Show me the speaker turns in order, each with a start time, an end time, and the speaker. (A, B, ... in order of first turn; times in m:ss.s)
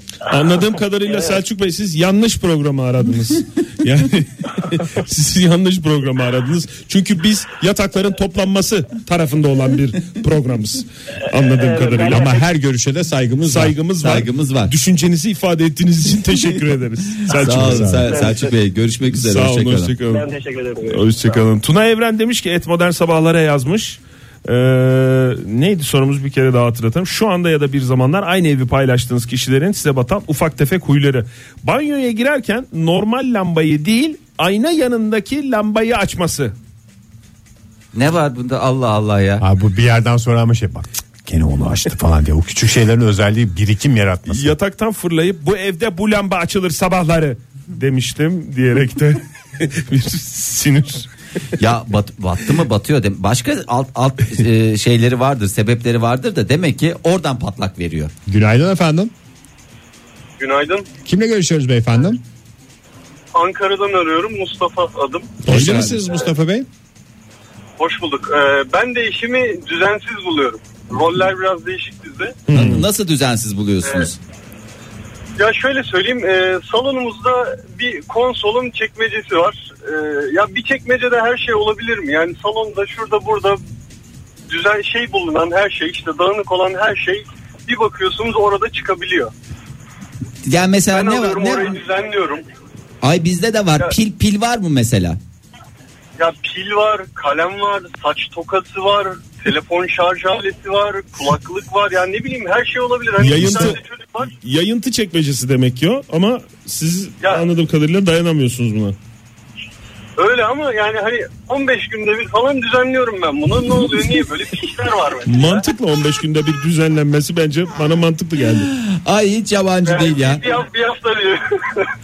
0:00.2-0:12.3 A
0:11.4-0:12.4 B
0:12.0-0:13.8 C
0:13.5-0:18.0 A
0:14.0-0:14.7 D
0:17.3-0:19.9 D
0:17.4-0:18.0 C
0:18.1-0:18.5 B
0:19.1-0:20.2 A
0:20.0-0:21.4 B
0:20.9-0:36.5 A
0:37.9-0:39.4 D
0:39.4-0:44.5 C
0:44.3-0:51.1 A
0:51.6-0:58.1 D
0:58.3-0:59.1 C
1:00.4-1:00.8 E
1:01.0-1:02.2 C
1:03.3-1:05.4 E
1:05.4-1:06.0 A
1:05.4-1:06.7 C
1:07.8-1:12.4 E
1:12.5-1:12.8 A
1:12.5-1:14.2 D
1:15.4-1:23.6 E
1:24.5-1:29.3 E
1:30.4-1:31.8 D
1:30.9-1:32.4 E
1:33.0-1:35.2 D
1:36.2-1:44.3 E
1:43.2-1:43.8 A
1:44.4-1:49.0 A
1:47.2-1:47.5 E
1:50.2-1:55.6 E
1:55.2-1:58.7 A
1:58.6-2:00.5 D
1:59.8-2:01.9 E